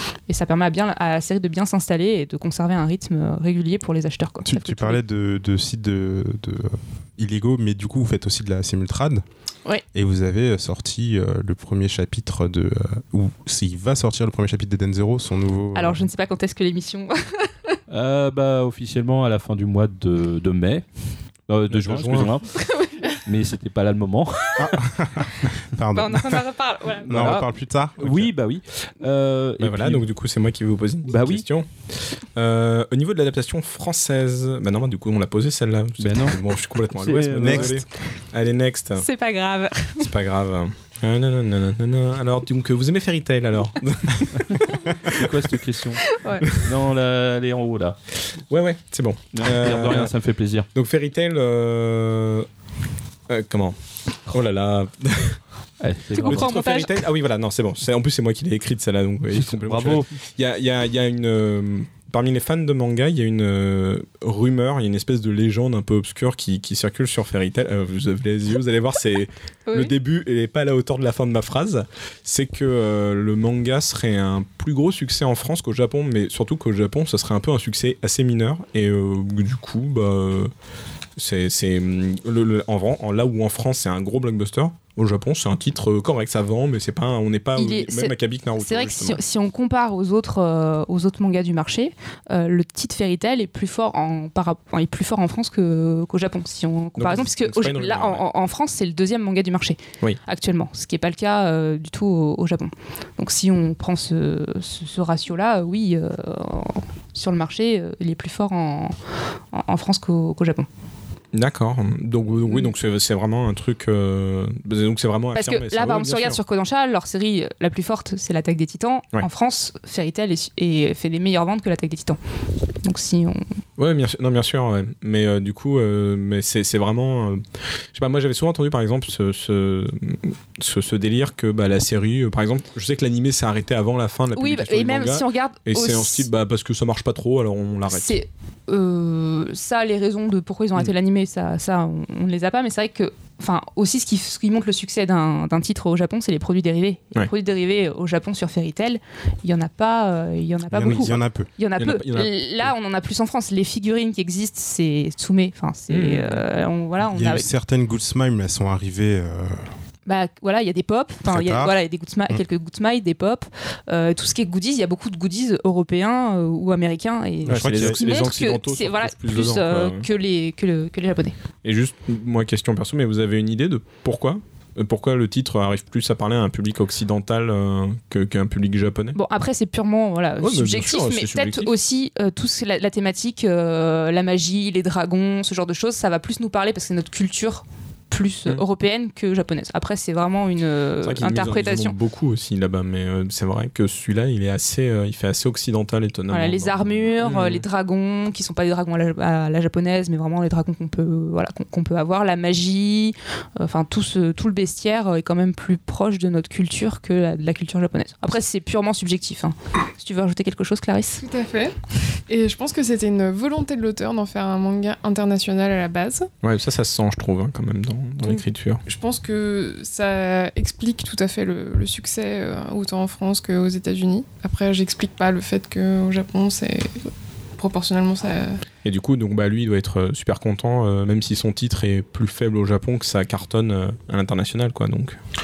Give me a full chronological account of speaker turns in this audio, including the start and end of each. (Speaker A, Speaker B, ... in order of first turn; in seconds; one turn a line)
Speaker A: 0.3-5.0
Speaker B: 4.4-9.2
Speaker B: 9.9-16.1
Speaker A: 15.7-17.8
Speaker C: 17.9-20.8
Speaker C: 21.5-22.5
Speaker D: 21.7-22.3
Speaker A: 22.6-23.1
Speaker C: 23.1-24.7
Speaker B: 24.6-26.4
Speaker A: 25.9-27.4
Speaker B: 27.0-28.3
Speaker C: 27.0-30.0
Speaker D: 29.6-31.7
Speaker C: 31.1-31.4
Speaker D: 32.4-39.0
Speaker C: 36.0-37.8
Speaker B: 37.4-37.8
Speaker A: 39.0-40.1
Speaker D: 40.0-45.3
Speaker C: 44.5-48.0
Speaker A: 46.1-46.5
Speaker D: 48.5-50.1
Speaker C: 49.3-50.7
Speaker D: 50.7-52.5
Speaker D: 53.3-53.8
Speaker D: 54.3-55.4
Speaker C: 55.8-56.6
Speaker A: 56.2-57.0
Speaker D: 56.2-80.5
Speaker C: 59.3-60.1
Speaker A: 69.7-69.9
Speaker D: 81.2-89.2
Speaker A: 87.5-108.9
Speaker D: 97.0-98.2
Speaker A: 109.5-110.7
Speaker D: 111.3-116.4
Speaker A: 115.3-122.2
Speaker A: 122.8-123.4
Speaker D: 123.8-127.4
Speaker D: 127.9-138.2
Speaker A: 134.3-136.3
Speaker A: 137.9-157.5
Speaker B: 150.7-151.5
Speaker D: 150.9-151.2
Speaker D: 151.8-152.7
Speaker D: 155.9-156.4
Speaker B: 157.0-159.7
Speaker A: 160.1-171.3
Speaker B: 161.2-161.8
Speaker D: 167.4-170.1
Speaker B: 167.5-168.0
Speaker D: 171.6-179.2
Speaker A: 179.1-191.9
Speaker D: 180.4-181.7
Speaker D: 191.0-197.6
Speaker A: 196.3-211.2
Speaker E: 211.2-211.8
Speaker E: 212.3-216.3
Speaker D: 216.4-218.8
Speaker E: 218.3-228.6
Speaker D: 228.8-235.2